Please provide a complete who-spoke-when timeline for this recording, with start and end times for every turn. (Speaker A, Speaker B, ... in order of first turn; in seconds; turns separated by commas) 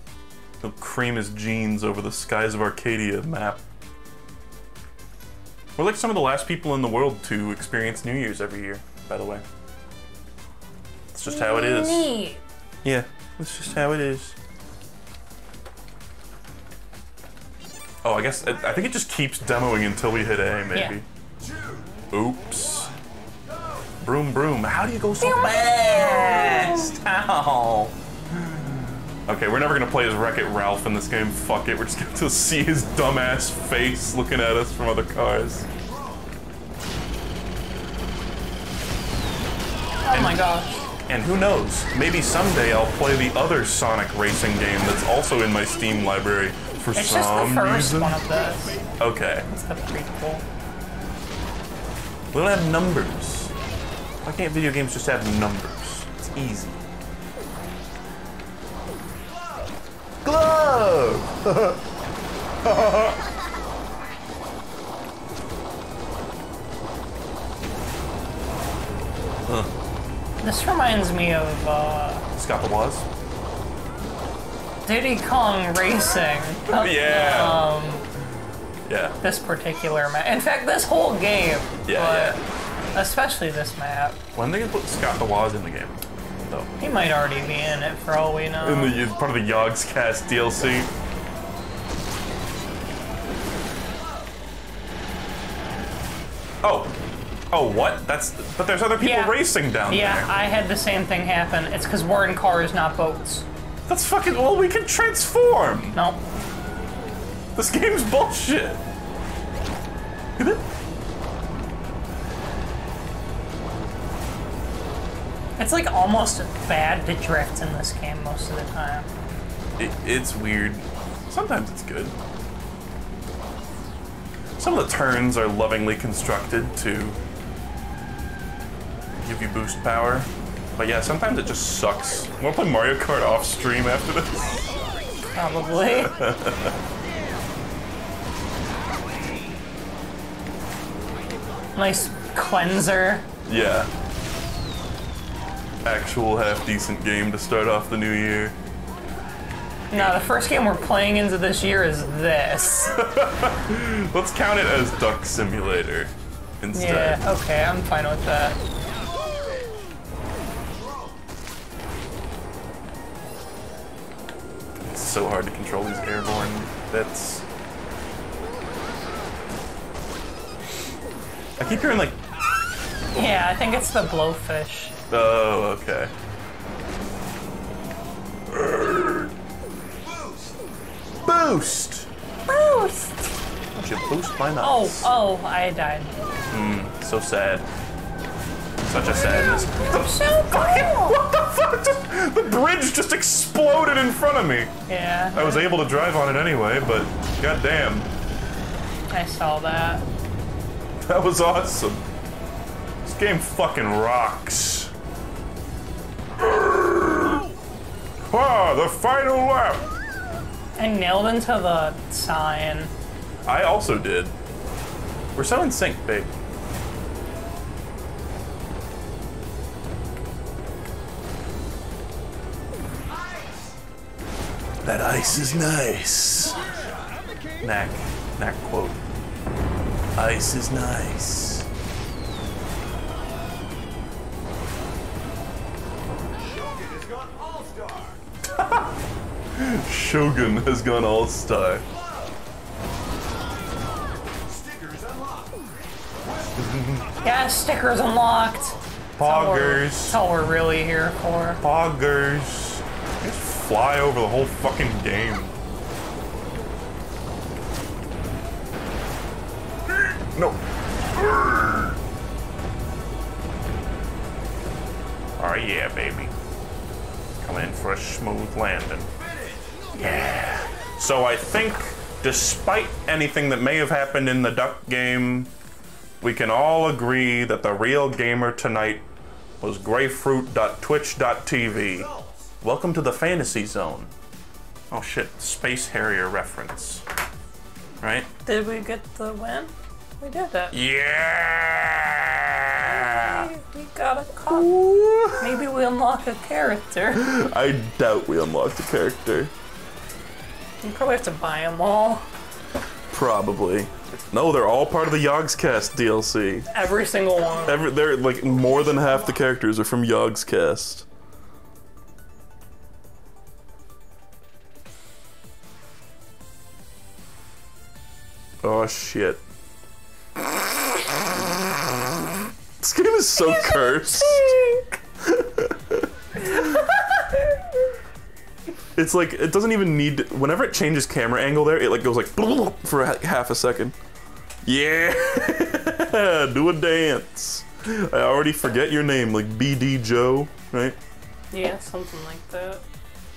Speaker A: 0.6-3.6, Speaker A: 5.8-9.4, Speaker A: 11.1-12.1, Speaker B: 11.2-12.4, Speaker A: 12.8-14.3, Speaker A: 18.0-21.1, Speaker B: 20.7-21.0, Speaker C: 21.4-22.0, Speaker A: 22.1-22.9, Speaker C: 23.4-24.0, Speaker A: 24.0-35.6, Speaker B: 25.2-26.9, Speaker C: 35.7-36.3, Speaker B: 40.0-40.9, Speaker A: 40.1-40.4, Speaker A: 41.0-48.2, Speaker B: 46.9-48.8, Speaker A: 49.0-49.5, Speaker B: 49.5-50.4, Speaker A: 52.3-53.5, Speaker A: 54.2-56.8, Speaker A: 60.2-61.8, Speaker A: 62.6-63.2, Speaker A: 69.5-69.7, Speaker B: 70.4-72.3, Speaker A: 72.3-73.0, Speaker B: 74.8-78.0, Speaker A: 76.7-77.7, Speaker A: 78.9-79.2, Speaker B: 79.2-82.4, Speaker A: 81.8-82.4, Speaker B: 82.9-84.2, Speaker A: 84.3-86.7, Speaker B: 86.8-89.0, Speaker A: 88.6-90.9, Speaker C: 93.8-94.3, Speaker A: 96.6-96.9, Speaker A: 97.5-100.3, Speaker B: 99.0-103.5, Speaker A: 103.9-106.0, Speaker B: 105.9-106.2, Speaker A: 107.5-108.8, Speaker A: 110.4-110.7, Speaker B: 115.6-119.1, Speaker A: 119.8-122.2, Speaker A: 124.6-127.2, Speaker A: 129.2-134.7, Speaker B: 135.3-136.2, Speaker A: 135.9-136.8, Speaker B: 141.7-143.3, Speaker A: 143.4-143.9, Speaker A: 145.8-148.6, Speaker B: 149.9-153.0, Speaker A: 149.9-150.2, Speaker A: 152.6-157.2, Speaker B: 156.7-158.6, Speaker C: 160.7-161.2, Speaker A: 164.8-167.4, Speaker A: 171.6-172.2, Speaker B: 173.1-175.0, Speaker A: 175.1-176.1, Speaker A: 178.5-179.3, Speaker C: 179.9-180.7, Speaker A: 181.2-182.1, Speaker B: 182.5-183.3, Speaker A: 183.7-185.1, Speaker B: 184.6-186.2, Speaker A: 186.5-187.7, Speaker A: 188.8-194.7, Speaker B: 189.1-191.2, Speaker B: 194.9-195.8, Speaker A: 195.3-198.1, Speaker B: 199.1-200.1, Speaker A: 201.0-202.1, Speaker A: 203.0-204.9, Speaker A: 206.4-207.4, Speaker A: 208.3-209.9, Speaker B: 210.8-212.9, Speaker A: 213.4-214.3, Speaker A: 215.3-216.3, Speaker C: 223.1-223.8, Speaker A: 224.8-226.7, Speaker C: 226.5-227.3, Speaker A: 227.6-229.0, Speaker A: 230.1-231.7, Speaker C: 236.3-238.2, Speaker A: 238.4-239.0, Speaker A: 239.5-241.8, Speaker C: 241.8-242.4, Speaker C: 243.6-247.2, Speaker A: 246.6-247.1, Speaker B: 247.2-251.6, Speaker A: 249.2-250.2, Speaker A: 251.6-255.6, Speaker A: 260.1-262.0, Speaker A: 265.4-266.3, Speaker A: 267.4-269.1, Speaker C: 269.1-270.3, Speaker A: 270.0-275.5, Speaker A: 276.2-279.0, Speaker A: 279.6-282.1, Speaker C: 281.8-282.5, Speaker A: 282.6-284.1, Speaker A: 284.9-287.0, Speaker A: 288.0-288.3, Speaker B: 288.4-290.8, Speaker A: 290.7-293.5, Speaker B: 292.9-294.7, Speaker A: 294.5-295.6, Speaker B: 295.4-297.3, Speaker A: 297.1-299.5, Speaker B: 300.8-302.2, Speaker A: 303.1-306.7, Speaker B: 306.7-307.9, Speaker A: 307.6-311.1, Speaker C: 308.5-309.0, Speaker A: 318.6-319.4, Speaker A: 320.4-324.6, Speaker B: 323.4-324.9, Speaker A: 325.2-326.9, Speaker B: 326.5-327.1, Speaker A: 328.9-333.9, Speaker A: 334.6-341.0, Speaker B: 341.5-342.8